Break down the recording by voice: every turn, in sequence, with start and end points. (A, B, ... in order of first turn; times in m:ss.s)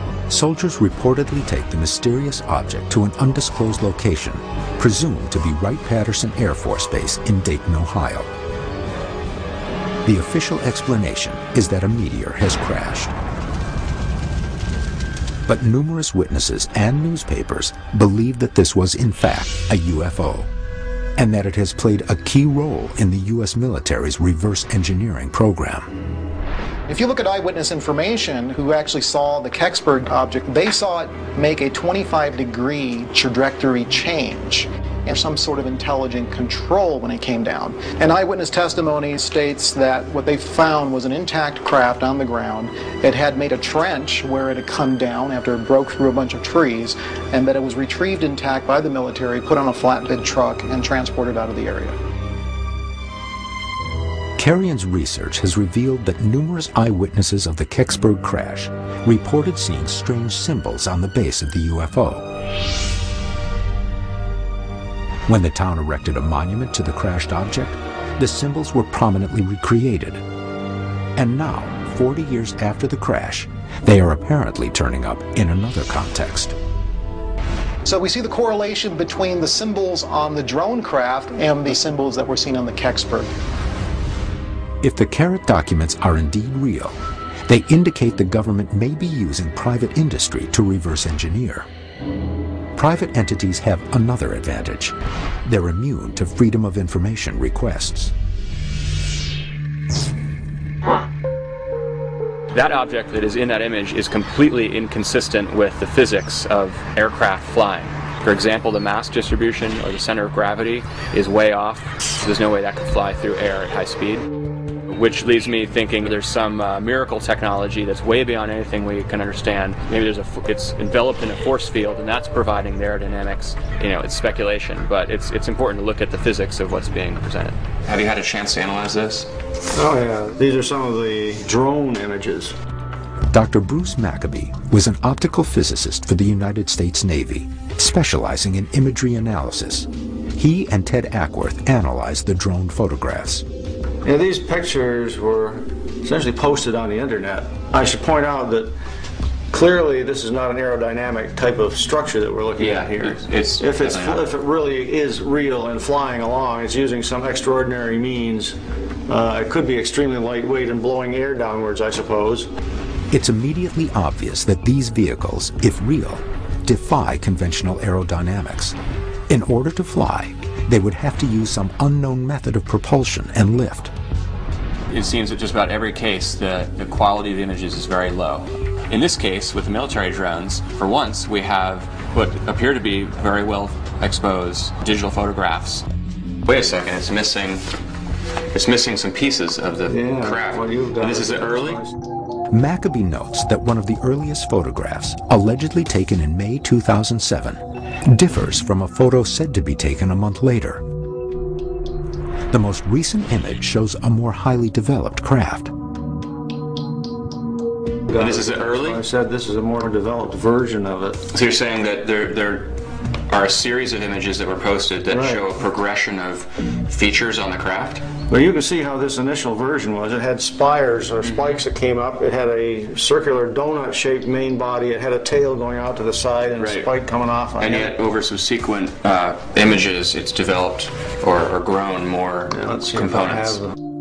0:00.3-0:08.3 A
0:10.0-0:13.1 A
0:15.5-0:20.5 A
0:21.2-0:25.9 A
0:26.9-0:52.0 B
0:54.4-1:02.2 A
1:05.3-1:10.2 A
1:11.2-1:16.5 A
1:17.8-1:23.3 B
1:24.8-1:31.7 A
1:32.8-1:34.9 A
1:35.4-1:38.1 A
1:42.5-1:54.3 C
1:54.9-2:09.3 C
2:09.7-2:12.5 D
2:13.3-2:23.4 A
2:24.0-2:28.7 D
2:29.5-2:38.6 D
2:32.6-2:34.3 C
2:39.1-2:42.5 D
2:43.1-2:48.8 A
2:49.3-2:53.9 A
2:54.9-3:05.8 C
3:06.4-3:07.6 C
3:08.5-3:11.8 C
3:09.9-3:11.9 D
3:12.5-3:20.8 A
3:22.5-3:25.7 A
3:28.1-3:31.2 D
3:28.2-3:29.0 C
3:31.3-3:32.7 C
3:33.3-3:38.0 C
3:35.1-3:35.5 D
3:38.3-3:48.0 D
3:41.2-3:41.6 C
3:46.6-3:46.9 C
3:47.6-3:53.6 C
3:52.5-3:53.7 D